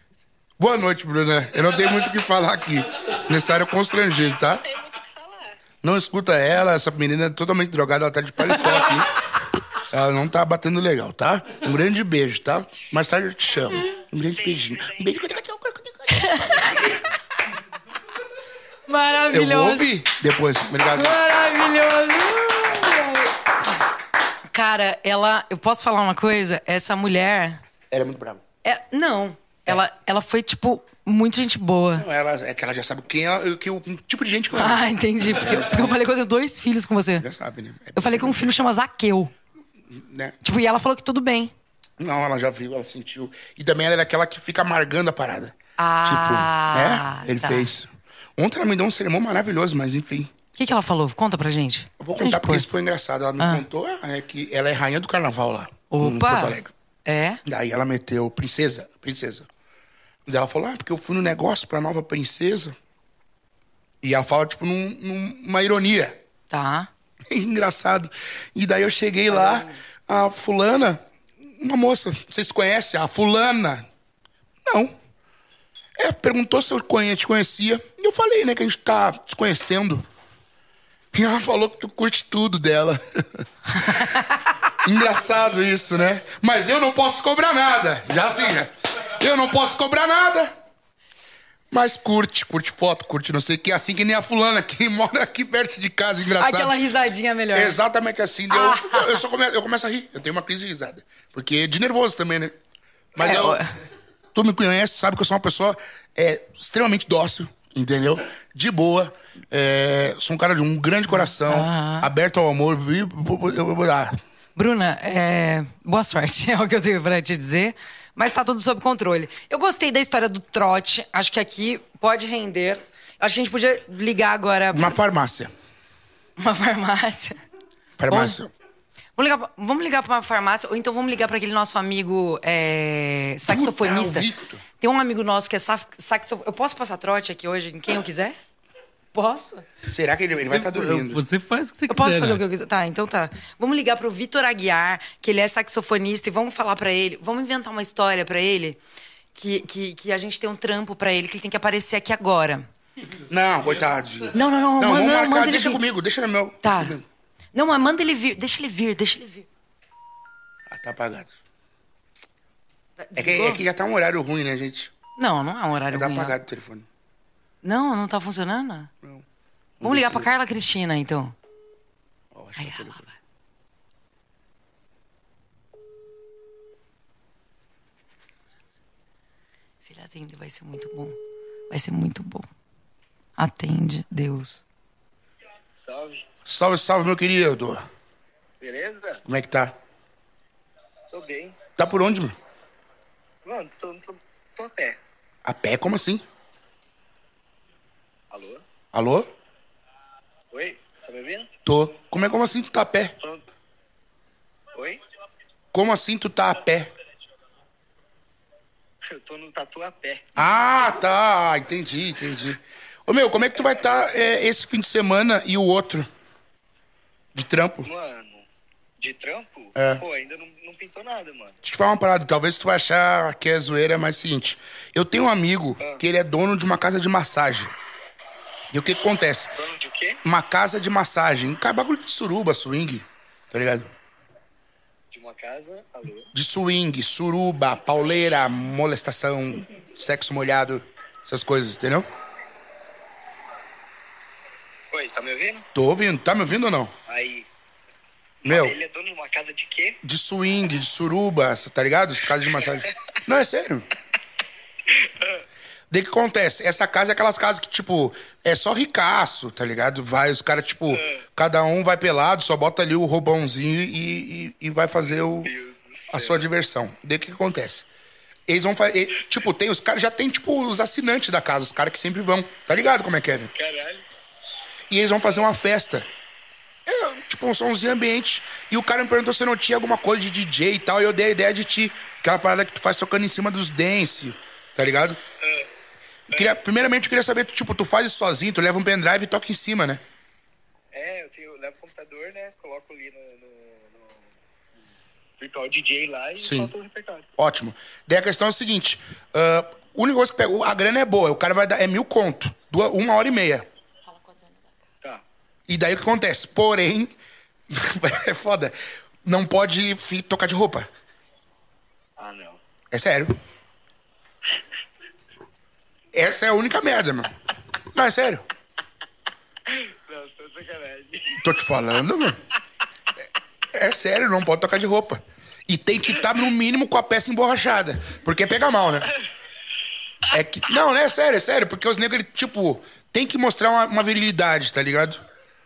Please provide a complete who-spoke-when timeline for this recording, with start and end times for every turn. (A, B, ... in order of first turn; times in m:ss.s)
0:00.6-0:04.6 A
0:04.6-0:05.5 B
0:05.8-0:09.1 A
0:09.9-0:16.8 A
0:13.7-0:15.2 B
0:16.1-0:17.0 C
0:18.9-0:19.9 C
0:19.3-0:21.2 A
0:20.9-0:23.3 C
0:24.5-0:27.6 C
0:27.9-0:28.4 A
0:28.6-0:32.1 C
0:32.0-0:34.8 A
0:34.5-0:37.2 C
0:37.2-0:38.4 A
0:37.9-0:39.3 C
0:39.9-0:40.3 A
0:40.4-0:41.5 C
0:42.0-0:50.3 A
0:45.8-0:47.7 C
0:50.6-0:52.7 C
0:52.0-0:56.7 A
0:53.4-0:53.6 C
0:55.9-0:57.4 C
0:57.4-0:59.5 A
1:00.2-1:02.7 A
1:04.0-1:06.2 A
1:06.5-1:06.9 C
1:07.3-1:13.8 A
1:09.3-1:09.8 C
1:14.6-1:15.0 A
1:16.0-1:20.0 A
1:21.1-1:23.4 A
1:23.8-1:24.2 C
1:24.8-1:30.5 A
1:31.7-1:36.7 A
1:36.4-1:37.8 C
1:37.5-1:42.5 A
1:38.5-1:39.2 C
1:43.1-1:43.6 A
1:43.2-1:43.7 C
1:44.3-1:54.2 A
1:51.1-1:52.1 C
1:54.6-2:05.0 C
2:04.7-2:05.5 A
2:06.4-2:07.4 C
2:08.0-2:08.5 A
2:08.1-2:08.4 C
2:09.2-2:14.3 C
2:13.4-2:14.6 A
2:14.8-2:18.4 C
2:19.1-2:19.6 C
2:19.8-2:21.2 A
2:20.5-2:22.4 D
2:21.9-2:28.8 C
2:29.3-2:32.7 C
2:33.3-2:37.1 A
2:34.3-2:35.8 C
2:36.6-2:37.0 C
2:37.5-2:39.5 C
2:40.7-2:41.3 A
2:43.0-2:43.6 C
2:43.2-2:44.9 A
2:45.2-2:46.4 C
2:45.9-2:46.9 A
2:47.6-2:48.9 C
2:49.8-2:50.3 A
2:49.8-2:51.3 C
2:52.3-2:53.0 A
2:52.6-2:53.1 C
2:59.8-3:01.2 C
3:01.7-3:02.5 C
3:03.4-3:04.6 C
3:05.8-3:06.2 E
3:06.4-3:07.8 A
3:08.6-3:09.2 E
3:09.2-3:09.8 A
3:11.1-3:11.6 E
3:11.8-3:12.3 A
3:13.4-3:15.0 E
3:15.4-3:16.2 A
3:18.3-3:18.6 E
3:18.9-3:19.3 A
3:20.5-3:21.5 E
3:21.6-3:23.1 A
3:24.7-3:25.0 E
3:25.7-3:26.9 A
3:29.0-3:30.2 E
3:30.4-3:36.1 A
3:37.3-3:37.9 A
3:37.8-3:38.5 E
3:39.0-3:41.6 E
3:39.7-3:40.0 A
3:41.6-3:47.7 A
3:48.7-3:49.6 A
3:49.6-3:50.2 E
3:50.2-3:53.9 A
3:55.1-3:56.3 E
3:56.3-4:02.1 A
4:04.9-4:05.7 E
4:05.7-4:06.9 A
4:07.1-4:07.5 E
4:08.4-4:10.0 E
4:08.4-4:08.8 A
4:10.0-4:13.9 A
4:14.9-4:15.4 E
4:15.9-4:25.5 A
4:25.4-4:26.4 E
4:26.1-4:27.8 A
4:28.5-4:33.5 A
4:33.5-4:34.0 E
4:34.9-4:36.1 A
4:36.8-4:45.2 A
4:45.4-4:45.7 E
4:46.3-4:50.0 A
4:50.9-4:54.3 E
4:55.4-4:57.3 E
4:56.4-4:56.7 A
4:57.4-5:03.7 A
5:04.1-5:04.7 C
5:05.7-5:07.1 A
5:07.7-5:10.9 A
5:12.2-5:12.6 E
5:12.9-5:13.4 A
5:16.1-5:17.3 A
5:17.9-5:18.4 A
5:19.7-5:21.4 E
5:21.4-5:22.4 A
5:23.7-5:29.1 A
5:30.3-5:35.2 A